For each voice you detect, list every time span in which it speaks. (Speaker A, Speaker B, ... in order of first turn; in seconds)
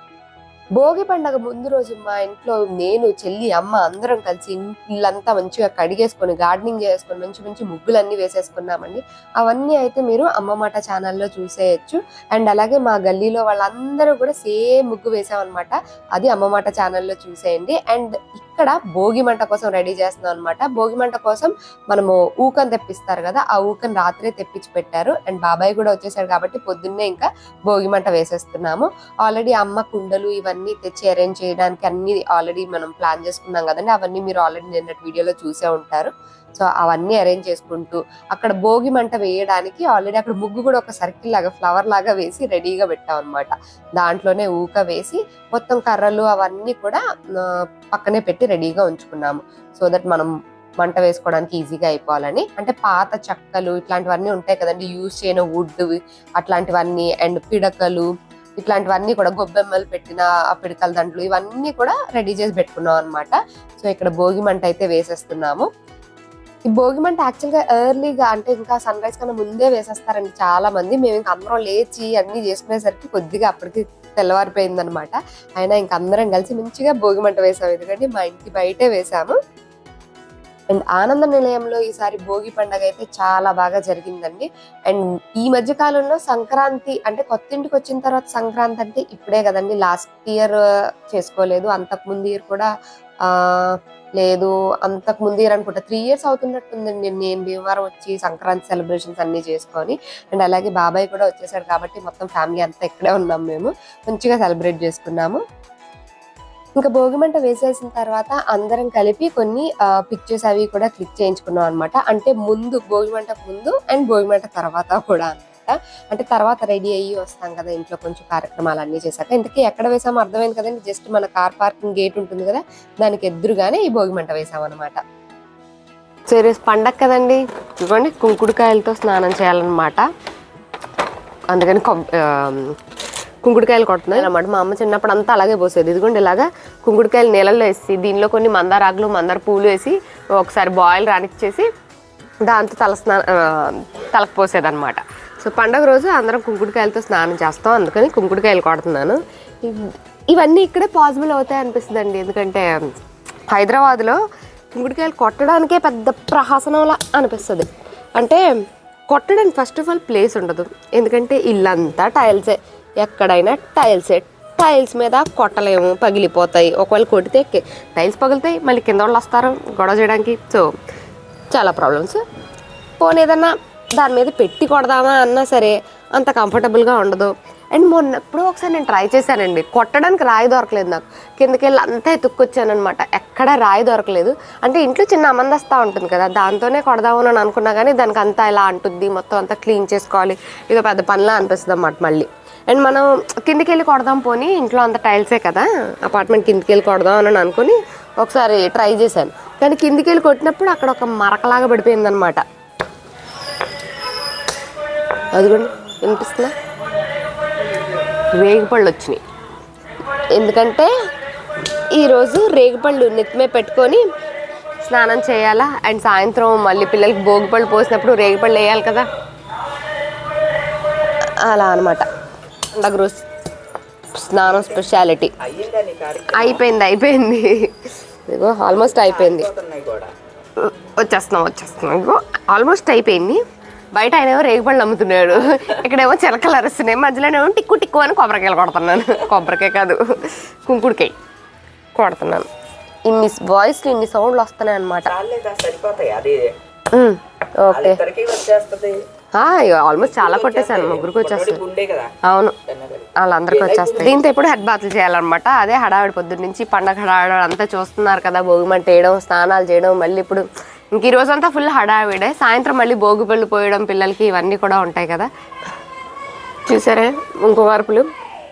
Speaker A: 0.8-50.3, 50.8-65.7, 66.7-79.3, 80.7-90.6, 91.1-92.7, 93.3-105.4, 106.8-125.0, 126.3-130.1, 131.5-132.7, 133.4-141.7, 142.4-152.8, 153.5-154.2, 154.8-158.4, 159.1-170.7, 171.5-172.2, 173.0-202.4, 205.3-206.5, 208.4-209.2, 210.3-210.9, 211.9-214.0, 214.8-219.1, 221.4-222.0, 222.7-223.2, 224.1-225.3, 226.3-227.7, 228.3-229.5, 230.6-233.4, 233.9-241.1, 241.9-242.4, 243.1-245.1, 246.9-248.0, 249.3-251.6, 252.2-252.6, 253.2-265.3, 266.7-268.1
Speaker B: 225.4-226.7, 228.8-230.1, 245.1-246.5, 247.7-249.0, 250.0-252.1, 252.7-254.2